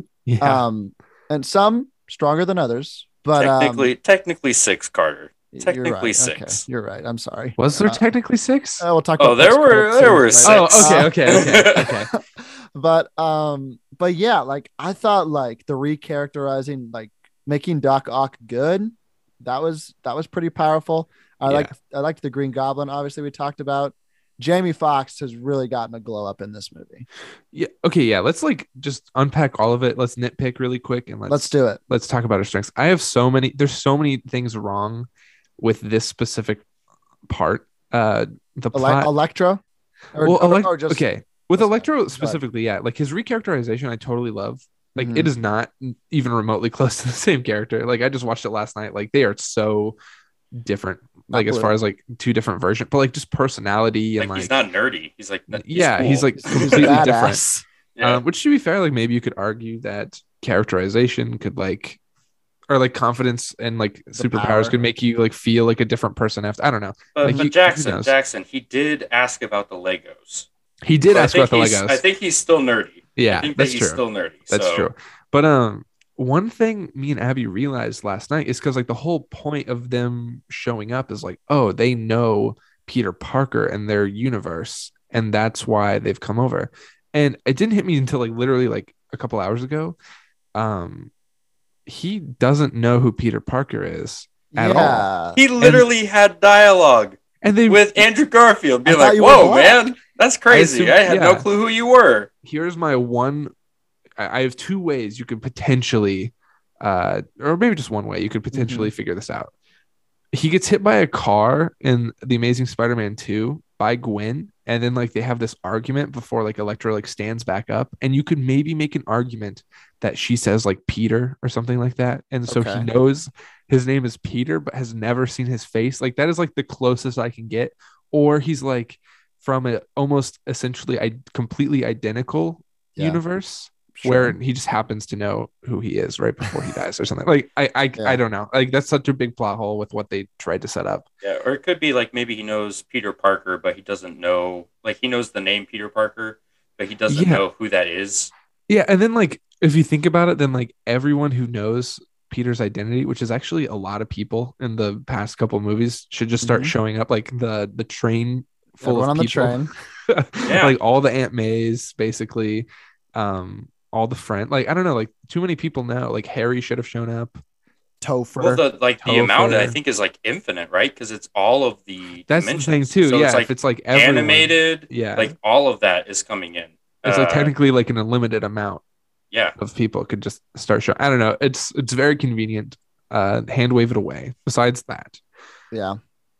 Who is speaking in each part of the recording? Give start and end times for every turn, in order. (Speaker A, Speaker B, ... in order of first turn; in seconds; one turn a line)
Speaker A: 0.2-0.6
Speaker B: 0.4-3.9
Speaker C: 3.4-6.6
Speaker B: 5.5-8.1
Speaker A: 7.6-8.8
Speaker B: 8.8-27.1
Speaker C: 9.2-12.0
Speaker A: 10.4-12.1
Speaker A: 21.5-21.7
Speaker A: 27.5-35.1
Speaker B: 31.3-31.8
Speaker A: 35.6-36.6
Speaker A: 37.3-39.1
Speaker B: 38.7-39.6
Speaker B: 40.1-41.0
Speaker A: 40.2-50.0
Speaker B: 41.6-42.4
Speaker B: 45.0-45.3
Speaker A: 50.5-54.5
Speaker B: 51.3-51.7
Speaker C: 54.2-57.0
Speaker A: 55.5-57.4
Speaker B: 56.4-57.6
Speaker C: 58.0-58.2
Speaker A: 58.0-62.0
Speaker A: 62.7-68.1
Speaker B: 64.2-64.8
Speaker C: 67.1-70.5
Speaker A: 70.8-72.0
Speaker C: 71.1-74.9
Speaker A: 73.2-90.0
Speaker A: 90.5-91.1
Speaker A: 91.9-95.1
Speaker B: 94.5-95.4
Speaker C: 95.4-102.3
Speaker A: 95.6-95.9
Speaker A: 97.4-98.1
Speaker B: 98.9-99.8
Speaker A: 100.5-101.5
Speaker A: 102.4-103.5
Speaker A: 104.2-109.5
Speaker B: 108.5-108.9
Speaker A: 110.3-141.1
Speaker B: 122.5-122.9
Speaker B: 133.9-134.4
Speaker C: 141.2-148.3
Speaker A: 147.1-147.4
Speaker A: 148.7-167.4
Speaker B: 156.4-156.7
Speaker B: 158.8-159.7
Speaker C: 160.4-160.8
Speaker B: 168.0-168.6
Speaker C: 168.4-177.5
Speaker A: 169.0-169.8
Speaker A: 172.3-175.3
Speaker A: 177.0-178.8
Speaker A: 179.6-185.2
Speaker B: 185.7-186.0